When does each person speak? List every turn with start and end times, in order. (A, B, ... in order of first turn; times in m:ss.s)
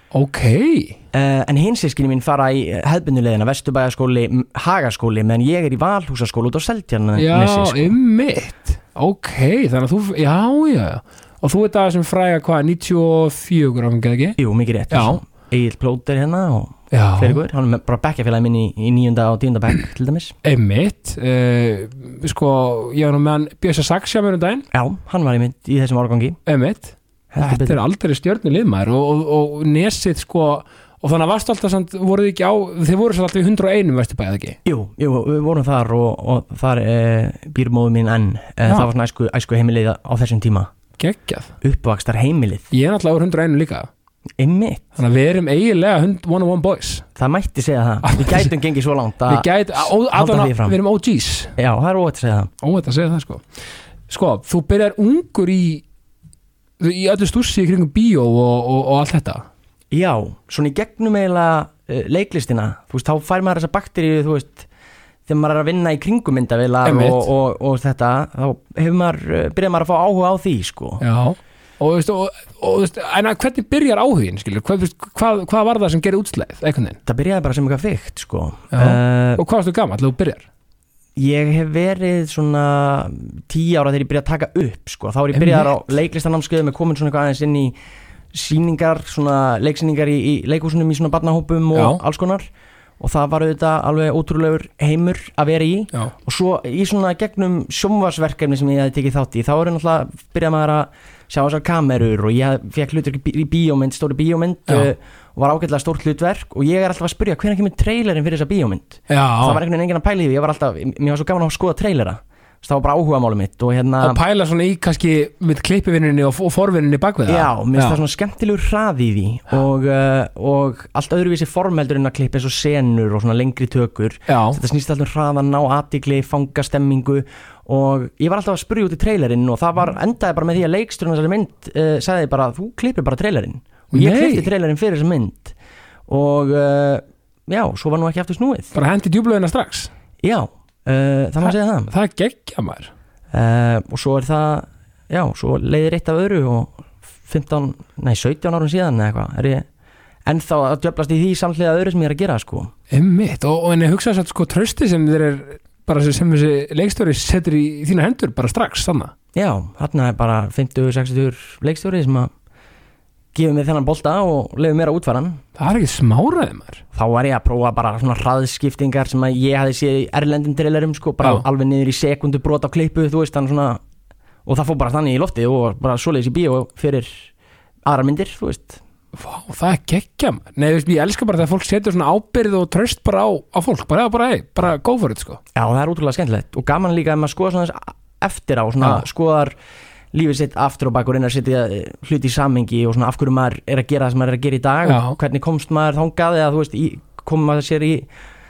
0:00.1-0:01.0 A
0:01.1-0:08.0 B
0:07.2-0:14.4 A
0:14.4-0:20.3 B
0:14.9-0:15.2 A
0:16.9-0:17.4 A
0:20.4-0:24.6 A
0:24.7-0:26.4 B
0:26.5-0:34.6 A
0:27.3-0:27.8 B
0:34.6-0:40.7 B
0:41.0-0:41.5 A
0:41.6-0:42.7 B
0:42.7-0:43.9 A
0:44.4-0:44.8 B
0:45.0-0:47.1 A
0:47.2-0:50.8 B
0:48.0-0:48.5 A
0:49.3-0:51.5 A
0:51.6-0:52.5 B
0:52.6-0:53.4 A
0:54.1-0:55.8 A
0:56.8-0:59.4 A
0:59.9-1:04.7 B
1:05.3-1:11.0 B
1:06.8-1:07.3 A
1:11.0-1:17.0 A
1:17.1-1:19.4 B
1:18.7-1:20.5 A
1:21.2-1:27.8 B
1:25.3-1:25.7 A
1:28.3-1:32.5 B
1:31.7-1:32.0 A
1:33.0-1:54.2 B
1:49.1-1:49.6 A
1:54.0-1:58.0 A
1:57.3-2:15.6 B
2:04.3-2:04.6 A
2:13.9-2:14.5 A
2:16.1-2:18.7 B
2:18.7-2:19.9 A
2:20.2-2:21.9 B
2:21.4-2:22.9 A
2:23.3-2:29.6 B
2:30.3-2:32.7 B
2:32.9-2:39.1 A
2:39.4-2:42.3 B
2:43.3-2:45.4 B
2:45.6-2:46.8 A
2:46.9-2:53.8 B
2:54.5-2:57.3 B
2:57.9-2:58.8 B
2:59.1-3:05.4 A
3:05.6-3:09.5 B
3:10.1-3:18.1 B
3:14.8-3:15.2 A